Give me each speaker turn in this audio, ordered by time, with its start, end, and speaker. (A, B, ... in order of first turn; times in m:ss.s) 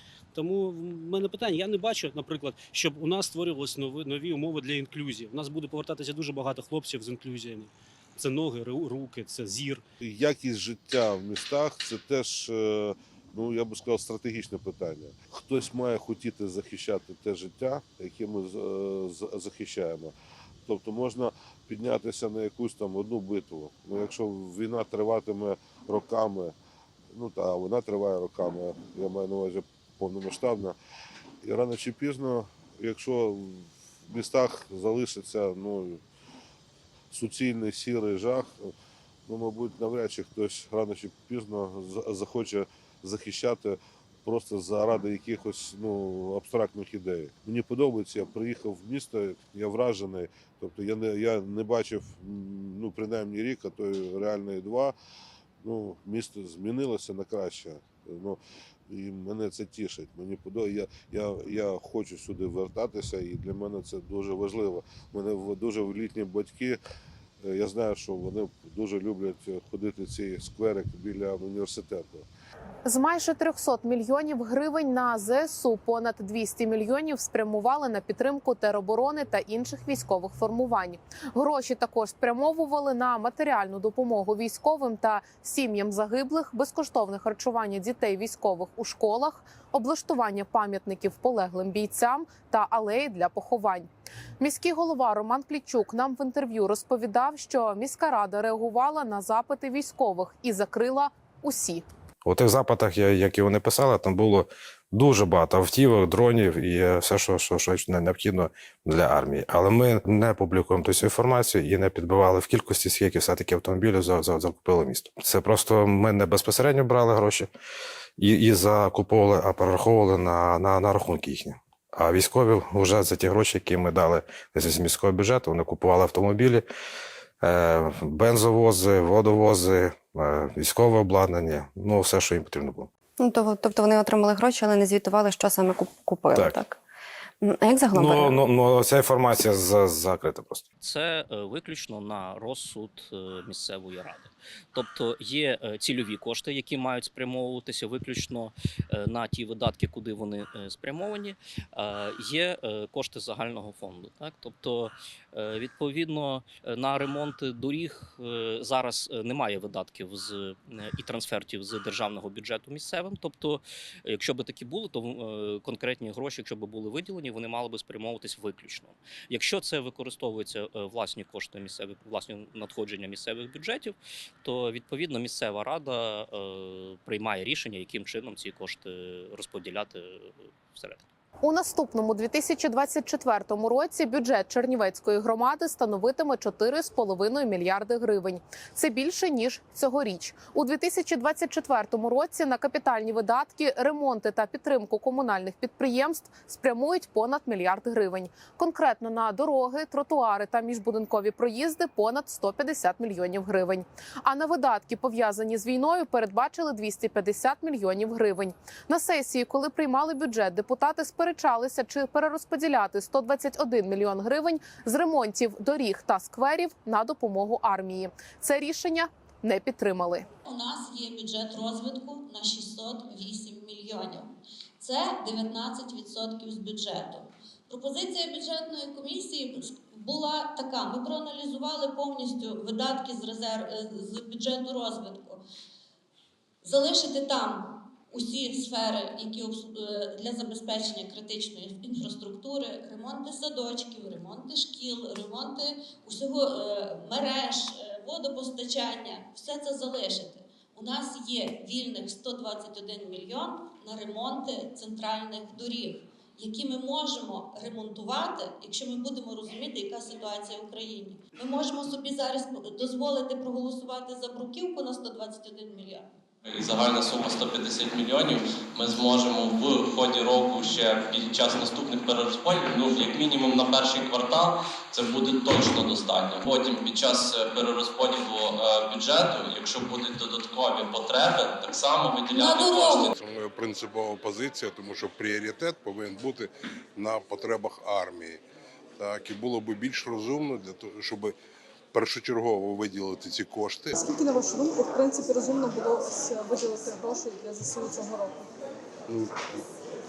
0:00.4-0:09.8 A
0:10.0-0:20.1 B
0:20.7-0:26.6 B
0:27.1-0:30.8 B
0:31.4-0:36.0 B
0:37.1-0:38.7 B
0:39.3-0:55.0 B
0:55.6-1:06.8 B
1:07.4-1:12.3 B
1:12.9-1:33.9 C
1:34.4-1:41.8 C
1:42.2-1:57.5 D
1:58.2-2:06.6 D
2:07.4-2:12.9 D
2:13.2-2:16.8 E
2:16.3-2:16.6 D
2:17.4-2:18.4 E
2:17.9-2:20.6 D
2:20.8-3:01.0 F
3:01.4-3:40.3 C
3:40.5-3:55.4 G
3:56.6-4:26.1 G
4:26.4-4:43.2 H
4:42.4-4:43.1 G
4:43.2-4:48.4 I
4:49.0-4:51.3 I
4:51.9-4:54.0 I
4:54.0-4:58.5 J
4:59.1-4:59.4 I